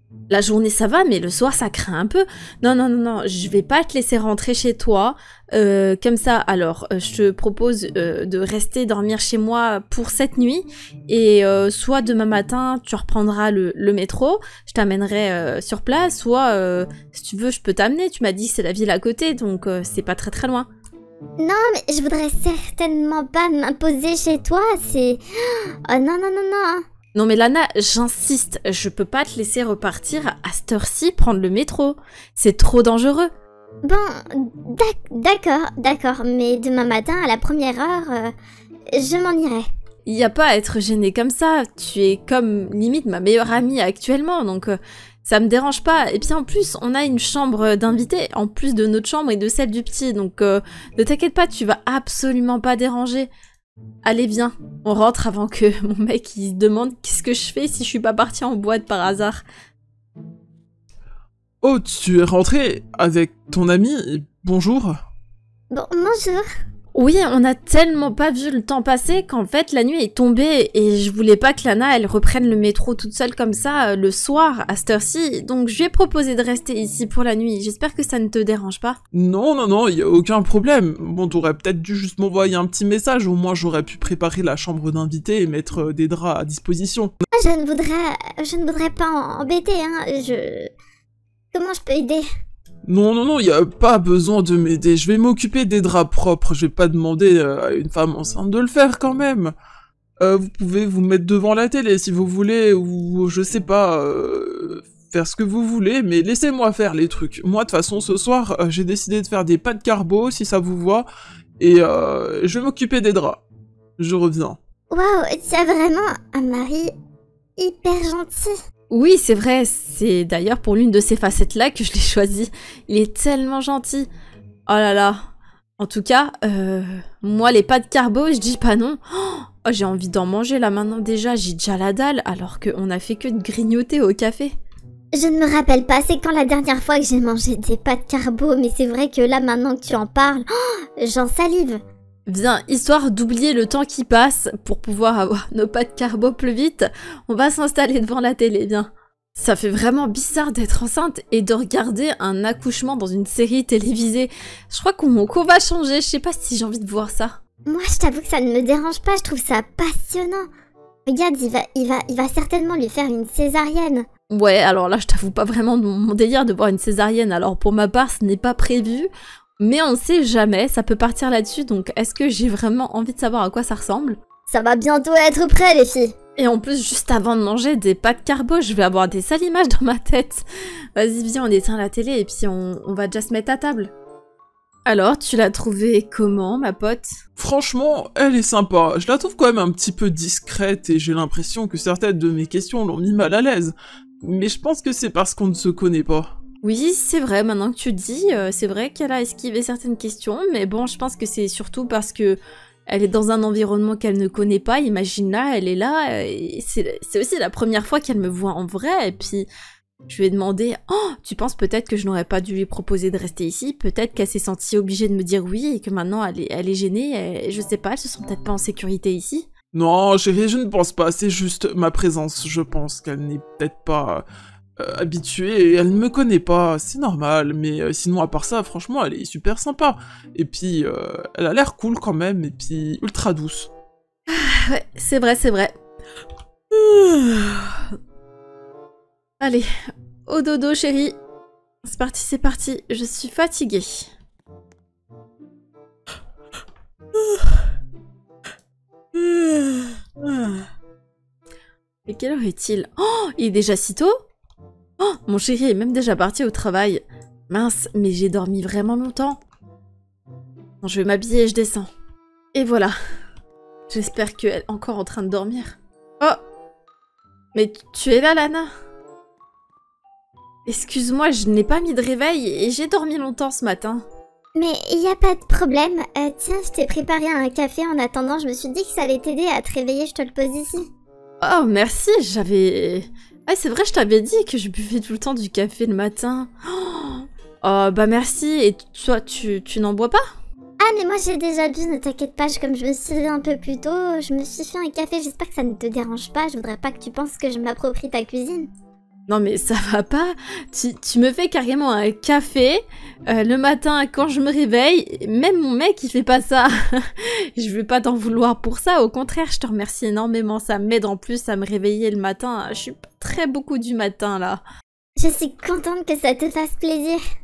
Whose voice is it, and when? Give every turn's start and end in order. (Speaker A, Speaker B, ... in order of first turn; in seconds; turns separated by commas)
Speaker A: 0.3-20.7, Speaker B: 21.4-26.8, Speaker A: 27.1-33.3, Speaker B: 33.8-38.3, Speaker B: 38.9-39.6, Speaker A: 40.0-53.3, Speaker A: 54.0-59.4, Speaker C: 61.6-65.0, Speaker B: 65.7-66.4, Speaker A: 66.9-79.0, Speaker C: 79.1-87.1, Speaker B: 87.3-90.7, Speaker B: 91.5-92.2, Speaker C: 92.9-99.5, Speaker C: 100.2-111.1, Speaker C: 111.6-113.4, Speaker C: 114.0-114.6, Speaker B: 114.9-116.9, Speaker B: 117.6-118.5, Speaker A: 118.9-124.1, Speaker A: 124.7-125.2, Speaker A: 125.8-134.5, Speaker B: 135.1-141.8, Speaker A: 142.3-157.3, Speaker B: 157.7-160.5, Speaker B: 161.1-164.1, Speaker A: 164.3-174.2, Speaker B: 174.5-176.1, Speaker A: 176.4-183.9, Speaker A: 184.9-187.2, Speaker C: 187.4-196.3, Speaker A: 196.6-209.5, Speaker A: 210.1-219.5, Speaker C: 219.7-224.2, Speaker C: 224.8-233.7, Speaker A: 234.3-235.7, Speaker A: 236.7-237.9, Speaker A: 239.4-239.7, Speaker A: 240.3-241.2, Speaker A: 241.8-244.1, Speaker A: 247.2-247.5, Speaker A: 249.1-250.7, Speaker A: 252.1-254.2, Speaker A: 255.0-259.4, Speaker A: 260.8-261.9, Speaker A: 262.5-262.9, Speaker A: 263.9-266.4, Speaker A: 267.5-268.7, Speaker A: 270.6-274.0, Speaker B: 274.6-280.9, Speaker A: 281.4-290.2, Speaker B: 290.8-298.7, Speaker A: 299.3-314.6, Speaker B: 315.2-317.2